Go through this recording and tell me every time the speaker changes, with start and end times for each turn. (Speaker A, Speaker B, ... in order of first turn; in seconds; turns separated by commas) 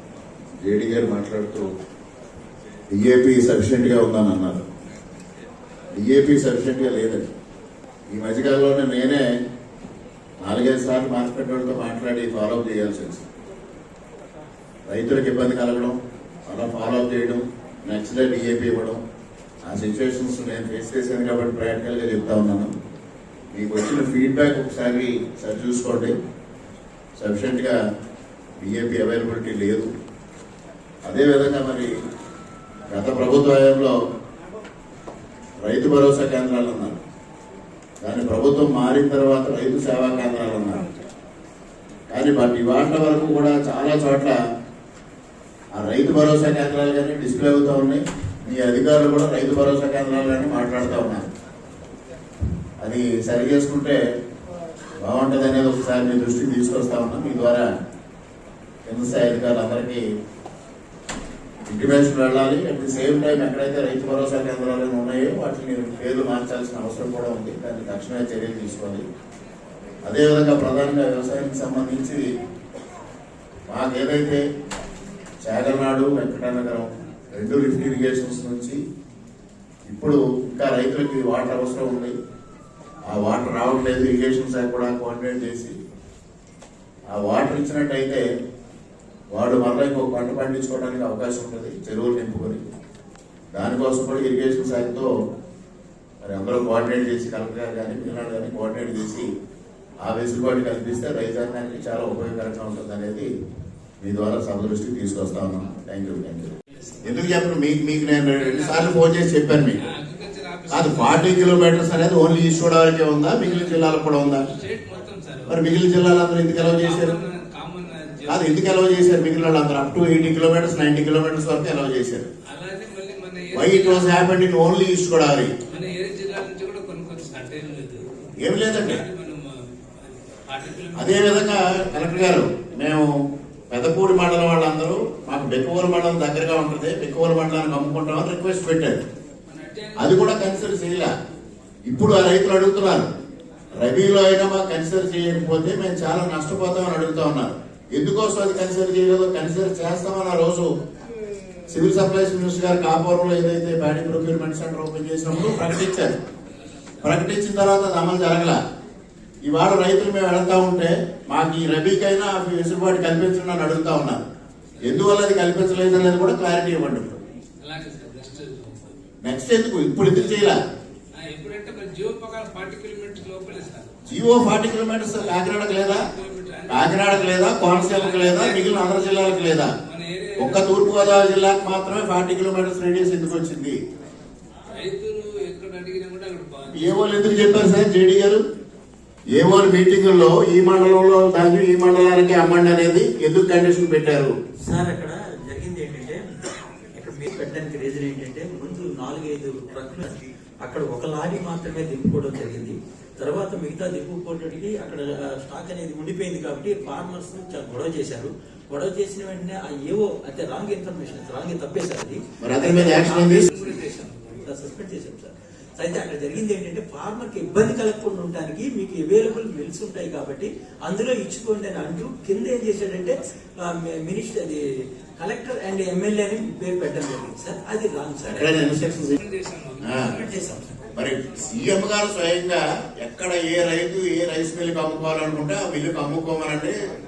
Speaker A: 0.6-1.7, Speaker A: 2.9-4.6, Speaker A: 5.9-7.2, Speaker A: 8.1-9.2, Speaker A: 10.4-13.2, Speaker A: 14.9-19.0, Speaker A: 19.6-22.7, Speaker A: 23.5-26.1, Speaker A: 27.2-27.8, Speaker A: 28.6-29.9, Speaker A: 31.1-31.9, Speaker A: 32.9-34.0, Speaker A: 35.6-37.0, Speaker A: 38.0-40.9, Speaker A: 42.1-44.4, Speaker A: 45.8-51.3, Speaker A: 52.8-54.0, Speaker A: 55.0-57.8, Speaker A: 58.9-60.0, Speaker A: 61.7-69.0, Speaker A: 70.0-72.2, Speaker A: 73.7-74.4, Speaker A: 75.5-78.8, Speaker A: 79.9-82.1, Speaker A: 83.1-85.8, Speaker A: 87.1-88.2, Speaker A: 89.3-92.6, Speaker A: 93.5-95.1, Speaker A: 96.2-99.3, Speaker A: 100.0-103.3, Speaker A: 104.0-109.9, Speaker B: 106.8-107.4, Speaker B: 108.3-109.1, Speaker B: 109.8-111.6, Speaker A: 110.7-114.5, Speaker B: 113.4-115.6, Speaker A: 115.5-117.2, Speaker B: 116.6-118.7, Speaker A: 118.3-122.3, Speaker B: 122.5-124.3, Speaker A: 123.5-125.5, Speaker B: 125.7-132.1, Speaker A: 128.4-129.0, Speaker A: 130.9-133.1, Speaker A: 133.7-139.0, Speaker B: 139.5-140.6, Speaker A: 140.0-141.1, Speaker A: 141.9-143.1, Speaker A: 143.7-150.7, Speaker A: 151.7-156.1, Speaker A: 157.0-158.6, Speaker A: 159.4-164.2, Speaker A: 164.8-167.2, Speaker B: 167.6-168.9, Speaker A: 169.2-170.6, Speaker B: 171.1-173.9, Speaker A: 174.1-176.0, Speaker B: 175.1-181.0, Speaker A: 176.7-179.7, Speaker A: 180.4-183.8, Speaker B: 184.7-187.2, Speaker A: 186.7-188.4, Speaker A: 189.3-194.3, Speaker C: 194.7-196.2, Speaker C: 196.9-229.0, Speaker A: 212.4-213.5, Speaker B: 212.9-214.4, Speaker A: 228.2-229.2, Speaker B: 229.1-230.4, Speaker A: 229.8-230.1, Speaker C: 230.0-230.7, Speaker A: 230.9-236.8